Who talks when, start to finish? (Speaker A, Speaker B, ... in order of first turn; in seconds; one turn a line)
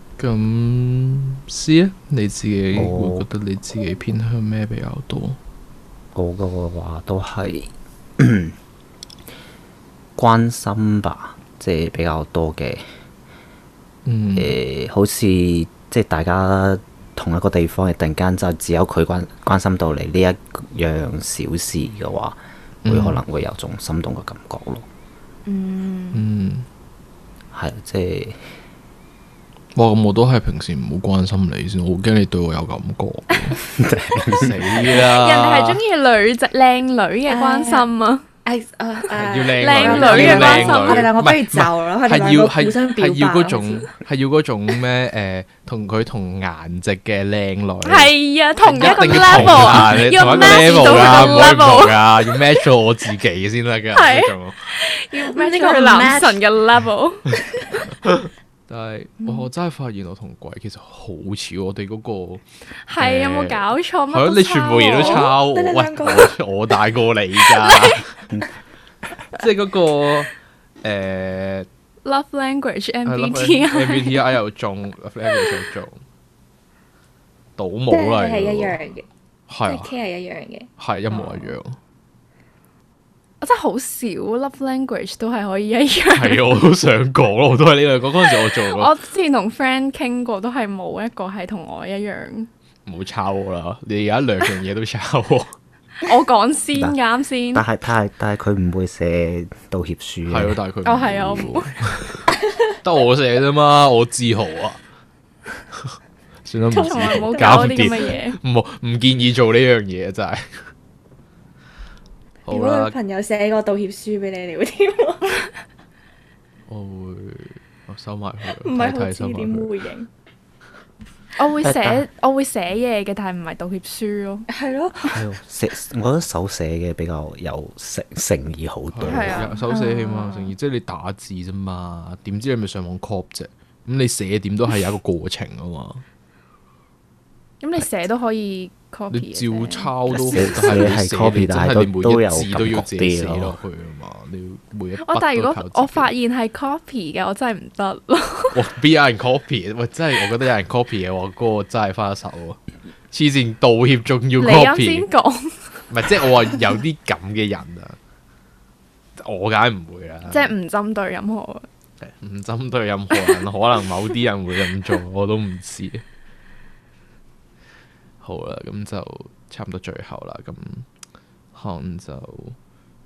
Speaker A: 0.2-5.4
Speaker B: 2.7-3.3
Speaker B: 6.1-8.6
Speaker B: 10.2-12.8
Speaker A: 14.1-14.6
Speaker B: 14.3-24.9
Speaker A: 22.8-23.2
Speaker C: 25.4-26.2
Speaker A: 26.1-26.6
Speaker B: 27.5-28.5
Speaker A: 29.7-33.6
Speaker B: 33.8-35.0
Speaker A: 34.3-35.8
Speaker C: 34.9-38.2
Speaker D: 37.3-37.9
Speaker D: 38.4-43.9
Speaker A: 39.2-48.1
Speaker C: 39.6-41.1
Speaker C: 47.8-52.1
Speaker A: 48.6-54.7
Speaker D: 48.7-51.6
Speaker C: 53.9-57.3
Speaker D: 55.1-56.4
Speaker A: 58.0-62.4
Speaker D: 59.2-59.5
Speaker C: 62.9-65.3
Speaker A: 63.0-68.1
Speaker D: 64.9-66.3
Speaker A: 69.3-70.3
Speaker A: 70.8-71.7
Speaker C: 72.0-74.3
Speaker A: 73.0-76.0
Speaker A: 77.6-78.8
Speaker D: 77.9-79.0
Speaker A: 79.5-79.9
Speaker D: 79.7-80.7
Speaker A: 80.8-81.8
Speaker C: 83.4-86.6
Speaker A: 86.1-88.9
Speaker C: 88.5-92.5
Speaker A: 92.9-95.5
Speaker C: 96.0-97.6
Speaker B: 97.5-100.6
Speaker A: 100.2-102.3
Speaker C: 100.8-101.7
Speaker A: 102.8-104.8
Speaker A: 105.8-110.6
Speaker D: 106.7-108.2
Speaker C: 106.8-108.4
Speaker A: 112.5-113.0
Speaker D: 112.5-115.5
Speaker A: 116.7-119.7
Speaker D: 118.5-120.1
Speaker C: 121.4-124.5
Speaker B: 121.6-122.0
Speaker D: 124.5-125.2
Speaker B: 125.1-129.5
Speaker A: 128.9-136.0
Speaker C: 129.0-129.7
Speaker D: 129.7-130.5
Speaker C: 137.6-140.9
Speaker A: 139.1-146.1
Speaker B: 140.1-143.6
Speaker C: 145.0-148.6
Speaker A: 148.5-152.6
Speaker A: 153.1-155.1
Speaker C: 154.4-155.8
Speaker A: 155.9-158.0
Speaker A: 159.2-160.5
Speaker C: 160.3-161.7
Speaker A: 162.0-166.0
Speaker A: 168.2-170.8
Speaker A: 171.5-172.6